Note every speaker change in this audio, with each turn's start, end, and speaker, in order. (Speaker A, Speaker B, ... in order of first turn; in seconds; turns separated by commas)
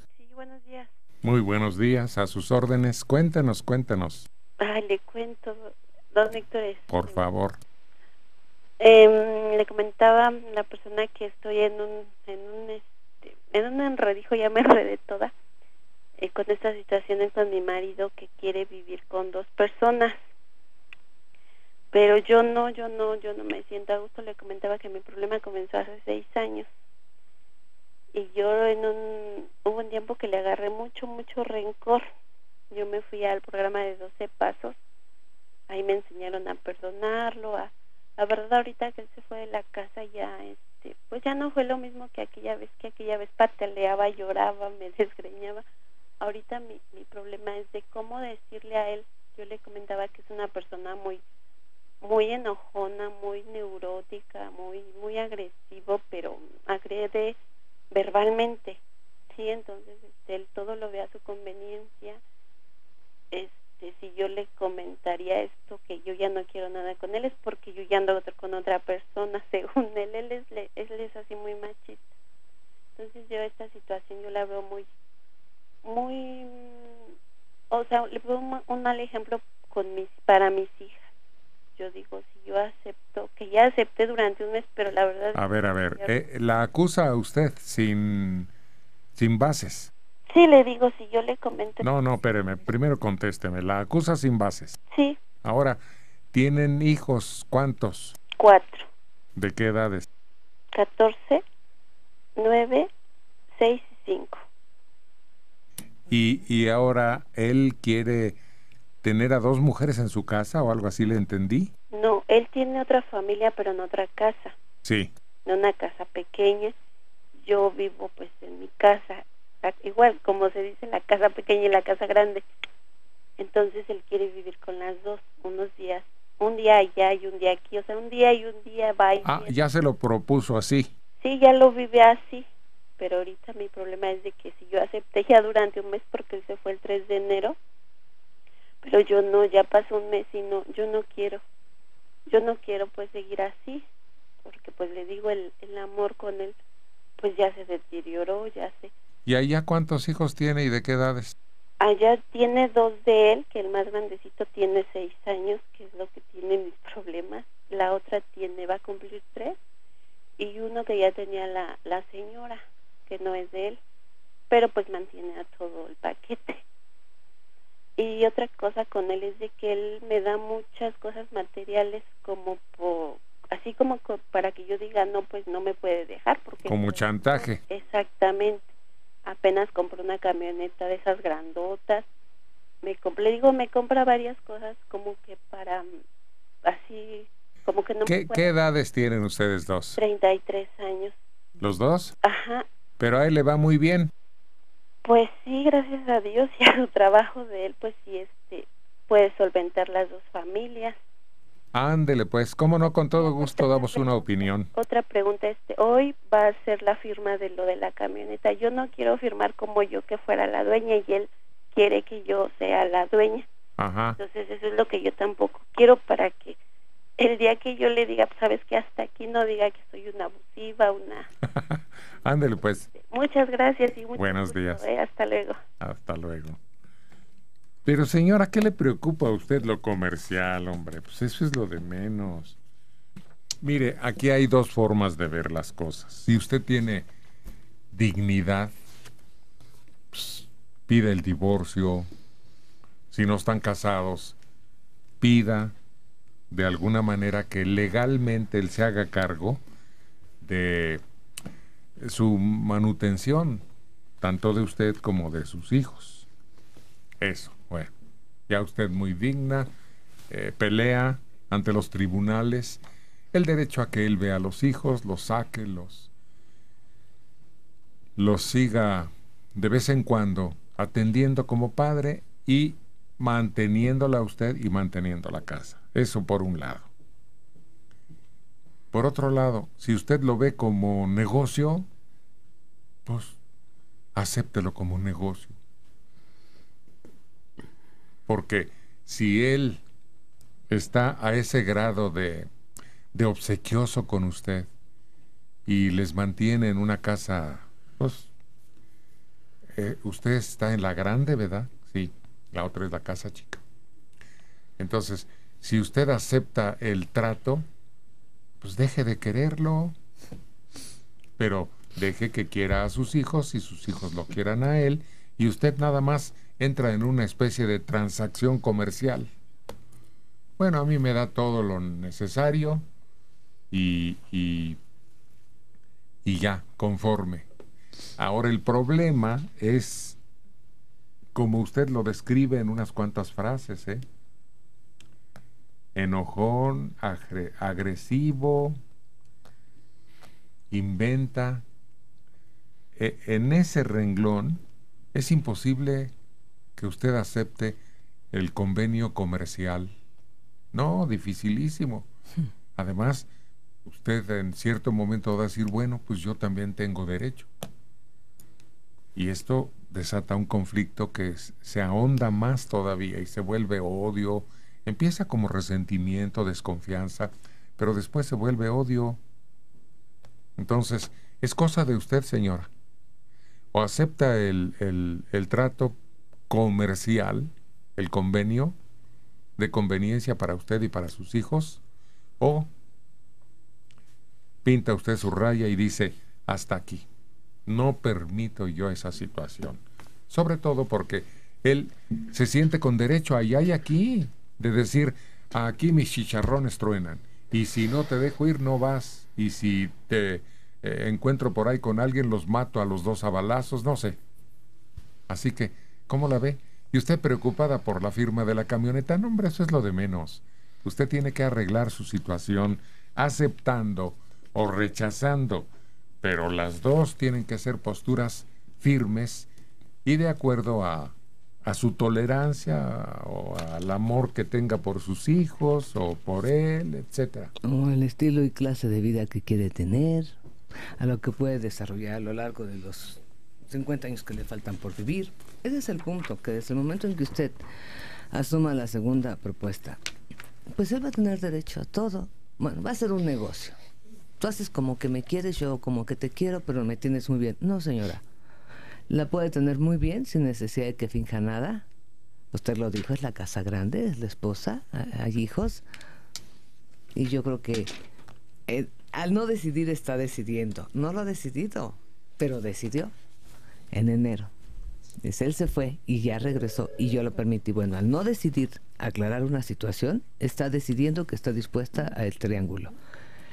Speaker A: 0.2-0.9, Speaker B: 1.2-4.3, Speaker A: 4.6-7.2, Speaker B: 6.9-7.6, Speaker A: 8.8-15.3, Speaker A: 16.2-20.1, Speaker A: 21.9-26.7, Speaker A: 28.1-32.0, Speaker A: 32.7-34.8, Speaker A: 35.7-45.6, Speaker A: 46.2-51.2, Speaker A: 52.0-57.4, Speaker A: 57.9-58.8, Speaker A: 59.3-62.2, Speaker A: 63.3-72.0, Speaker A: 73.0-74.8, Speaker A: 75.8-77.0, Speaker A: 77.7-81.0, Speaker A: 81.8-86.1, Speaker B: 85.3-88.5, Speaker B: 89.1-89.9, Speaker A: 90.3-91.8, Speaker B: 91.8-94.8, Speaker A: 94.9-95.2, Speaker B: 95.4-95.8, Speaker B: 96.3-98.2, Speaker A: 98.4-98.9, Speaker B: 99.4-100.1, Speaker A: 100.7-101.4, Speaker A: 102.4-102.9, Speaker A: 103.5-104.4, Speaker B: 106.1-108.4, Speaker B: 109.0-111.7, Speaker A: 111.9-114.5, Speaker B: 114.8-115.1, Speaker A: 115.4-116.7, Speaker A: 117.4-122.4, Speaker A: 123.4-129.5, Speaker B: 129.2-130.9, Speaker A: 131.2-132.5, Speaker A: 133.0-137.6, Speaker A: 138.8-141.4, Speaker A: 142.3-143.8, Speaker A: 144.4-146.6, Speaker A: 147.2-148.9, Speaker B: 149.2-151.3, Speaker A: 151.8-159.6, Speaker A: 160.4-163.8, Speaker A: 164.5-166.6, Speaker A: 168.0-178.7, Speaker B: 176.7-177.6, Speaker A: 179.2-182.1, Speaker A: 182.8-185.8, Speaker A: 186.6-188.5, Speaker B: 188.1-190.0, Speaker A: 190.0-191.2, Speaker B: 191.6-192.2, Speaker A: 192.2-192.7, Speaker B: 193.0-194.1, Speaker A: 195.0-200.9, Speaker B: 201.7-204.7, Speaker A: 203.1-213.5, Speaker B: 213.8-214.2, Speaker A: 214.2-216.6, Speaker A: 217.2-221.3, Speaker B: 221.6-222.9, Speaker A: 222.9-225.6, Speaker B: 224.2-224.8, Speaker B: 225.8-226.6, Speaker B: 227.8-232.6, Speaker B: 233.6-237.1, Speaker B: 237.9-238.7, Speaker B: 240.1-242.1, Speaker B: 243.1-244.3, Speaker B: 245.2-245.7, Speaker B: 246.5-249.6, Speaker B: 250.4-251.0, Speaker B: 252.0-253.6, Speaker B: 254.2-256.3, Speaker B: 257.2-257.9, Speaker B: 258.5-259.7, Speaker B: 260.3-262.8, Speaker B: 263.3-266.1, Speaker B: 268.2-276.9, Speaker B: 278.9-281.9, Speaker B: 283.1-283.4, Speaker B: 284.1-285.6, Speaker B: 288.3-289.8, Speaker B: 290.7-292.5, Speaker B: 293.1-294.7, Speaker B: 295.7-298.3, Speaker B: 299.8-303.6, Speaker B: 304.8-307.6, Speaker B: 308.6-309.9, Speaker B: 311.4-319.3, Speaker B: 320.6-322.8, Speaker B: 323.7-324.8, Speaker B: 326.2-327.5, Speaker B: 328.2-330.2, Speaker B: 331.4-334.0, Speaker B: 335.9-338.8, Speaker B: 340.7-341.6, Speaker B: 343.0-344.6, Speaker B: 345.1-346.1, Speaker B: 346.8-347.8, Speaker B: 348.3-349.9, Speaker B: 350.7-352.1, Speaker B: 352.8-353.3, Speaker B: 353.9-357.5, Speaker B: 359.1-369.2, Speaker B: 370.6-372.7, Speaker B: 373.7-375.9, Speaker B: 376.5-378.8, Speaker B: 379.6-381.8, Speaker B: 382.4-382.7, Speaker B: 384.6-387.1, Speaker B: 387.7-404.2, Speaker B: 405.3-415.7, Speaker B: 416.2-419.5, Speaker B: 420.1-427.5, Speaker C: 427.6-430.4, Speaker C: 431.0-437.6, Speaker C: 438.3-440.0, Speaker C: 440.7-443.8, Speaker C: 444.4-448.2, Speaker C: 449.1-451.9, Speaker C: 452.5-455.9, Speaker C: 457.1-457.9, Speaker C: 458.7-463.1, Speaker C: 463.9-464.5, Speaker C: 465.2-472.9